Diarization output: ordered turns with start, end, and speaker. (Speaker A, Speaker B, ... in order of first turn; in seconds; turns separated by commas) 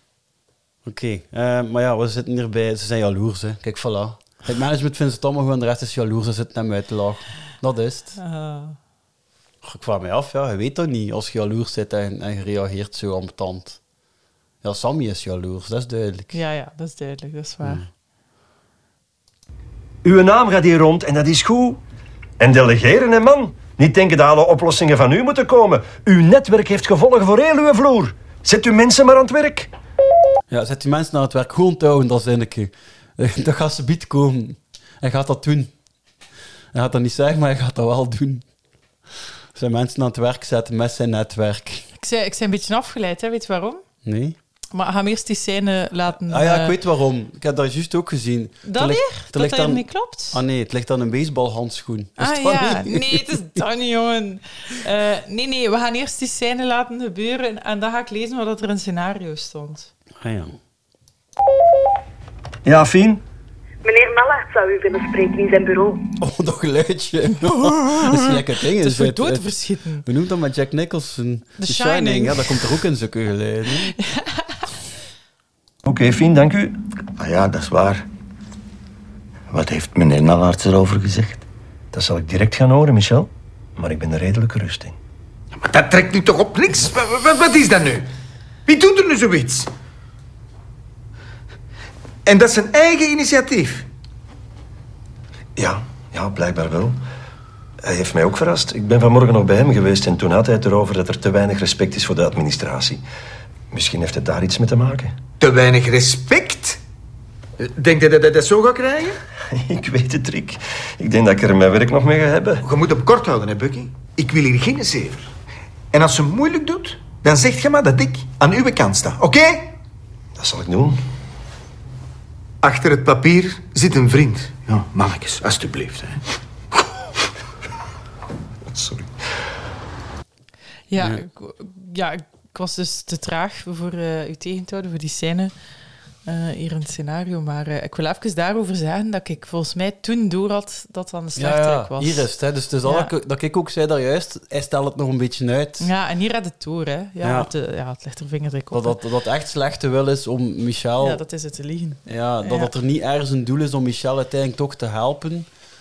Speaker A: 0.8-8.2, Speaker B: 8.2-8.8, Speaker A: 9.6-13.8, Speaker A: 14.6-16.4, Speaker B: 16.3-17.8, Speaker C: 20.0-21.8, Speaker C: 22.4-29.7, Speaker A: 30.5-35.7, Speaker A: 36.7-38.5, Speaker A: 39.5-41.9, Speaker B: 42.0-43.8, Speaker A: 44.0-44.4, Speaker B: 44.7-46.8, Speaker A: 46.3-53.5, Speaker B: 48.6-50.4, Speaker B: 52.2-59.9, Speaker A: 60.2-60.6, Speaker C: 62.6-63.2, Speaker D: 63.8-66.0, Speaker A: 66.2-69.5, Speaker B: 67.7-70.0, Speaker A: 70.0-74.0, Speaker B: 71.6-72.6, Speaker B: 73.8-74.6, Speaker C: 75.8-76.8, Speaker E: 77.2-78.0, Speaker E: 79.5-81.4, Speaker C: 81.9-85.0, Speaker F: 85.5-88.1, Speaker F: 88.7-89.7, Speaker F: 92.2-93.9, Speaker C: 95.6-97.0, Speaker C: 97.8-103.0, Speaker C: 103.7-105.2, Speaker F: 105.4-106.8, Speaker F: 107.6-109.2, Speaker C: 109.5-112.6, Speaker F: 112.6-115.3, Speaker F: 115.9-119.8, Speaker C: 120.4-121.0, Speaker F: 122.6-126.2, Speaker C: 128.7-129.1, Speaker B: 130.9-135.5, Speaker B: 136.2-142.3, Speaker A: 141.4-145.9, Speaker B: 142.8-143.1, Speaker B: 145.8-149.0, Speaker A: 147.2-147.5, Speaker A: 148.7-151.2, Speaker B: 151.0-152.7, Speaker A: 152.1-155.5